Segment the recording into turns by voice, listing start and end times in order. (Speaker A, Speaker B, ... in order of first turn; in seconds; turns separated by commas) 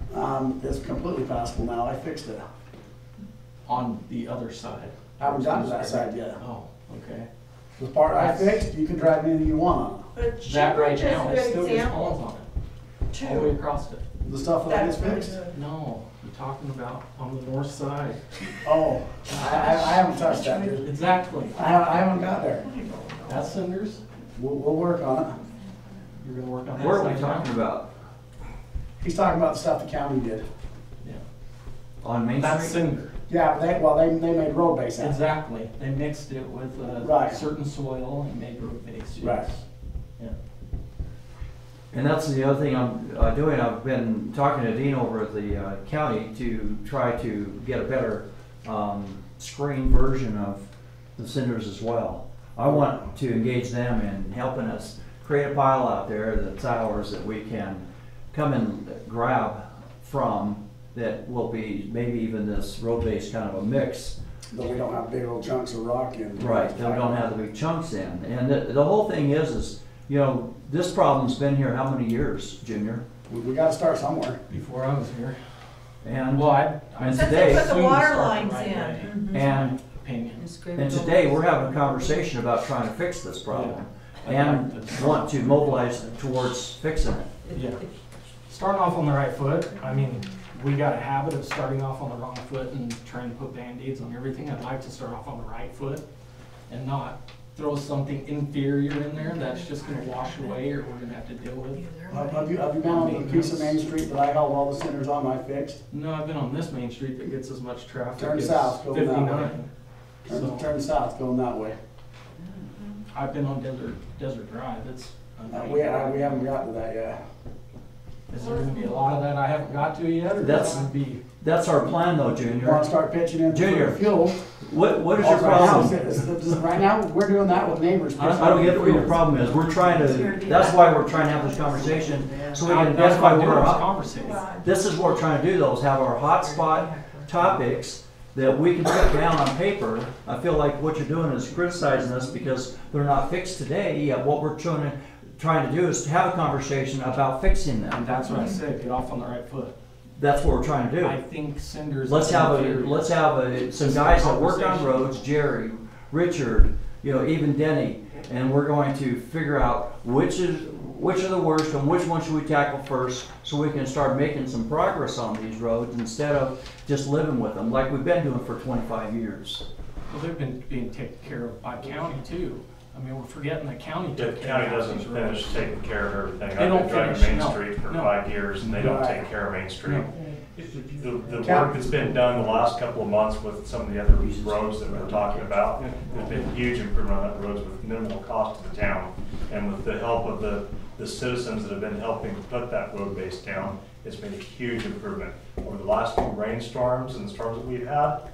Speaker A: 0.1-2.4, Speaker B: 3.6-7.3, Speaker A: 5.2-6.4, Speaker A: 7.8-10.0, Speaker B: 8.1-8.6, Speaker C: 10.1-12.2, Speaker B: 10.4-12.5, Speaker C: 13.1-13.5, Speaker B: 13.1-14.0, Speaker A: 14.2-15.4, Speaker C: 14.6-15.5, Speaker B: 15.5-18.2, Speaker A: 18.6-20.8, Speaker C: 19.4-20.8, Speaker B: 20.8-21.6, Speaker A: 21.5-22.6, Speaker C: 22.6-23.5, Speaker B: 23.3-24.0, Speaker A: 24.4-25.4, Speaker B: 26.2-27.5, Speaker D: 26.7-27.9, Speaker A: 29.0-30.4, Speaker D: 32.0-32.8, Speaker B: 32.4-33.1, Speaker A: 33.3-35.2, Speaker B: 35.0-39.6, Speaker A: 36.9-37.4, Speaker A: 39.2-39.5, Speaker D: 41.9-64.2, Speaker A: 64.5-67.3, Speaker D: 66.4-73.0, Speaker A: 73.3-74.4, Speaker B: 74.5-75.4, Speaker D: 76.0-77.8, Speaker B: 76.3-80.5, Speaker C: 77.1-79.5, Speaker D: 79.3-79.8, Speaker C: 80.4-81.8, Speaker D: 80.8-87.3, Speaker B: 83.5-86.2, Speaker B: 87.5-87.8, Speaker B: 88.5-96.0, Speaker B: 96.7-101.9, Speaker C: 99.2-100.5, Speaker C: 101.7-102.6, Speaker A: 102.1-105.8, Speaker B: 102.8-103.8, Speaker B: 105.9-109.7, Speaker A: 108.2-109.5, Speaker A: 110.2-111.8, Speaker B: 110.3-110.7, Speaker B: 113.1-116.5, Speaker A: 115.5-117.2, Speaker B: 118.3-121.2, Speaker C: 118.4-119.1, Speaker D: 120.4-120.9, Speaker D: 121.4-122.9, Speaker A: 122.5-124.4, Speaker D: 123.5-124.1, Speaker D: 124.6-126.0, Speaker A: 125.1-129.1, Speaker B: 128.2-129.4, Speaker D: 128.4-133.8, Speaker C: 129.5-132.6, Speaker B: 132.6-134.4, Speaker C: 134.0-134.7, Speaker D: 134.6-148.0, Speaker C: 136.3-137.3, Speaker B: 147.9-149.7, Speaker D: 150.2-151.2, Speaker B: 151.0-155.2, Speaker D: 152.0-169.7, Speaker B: 170.1-175.8, Speaker E: 174.1-198.2, Speaker B: 176.5-178.8, Speaker A: 178.8-179.2, Speaker B: 179.8-180.1, Speaker A: 181.4-182.6, Speaker D: 184.2-185.9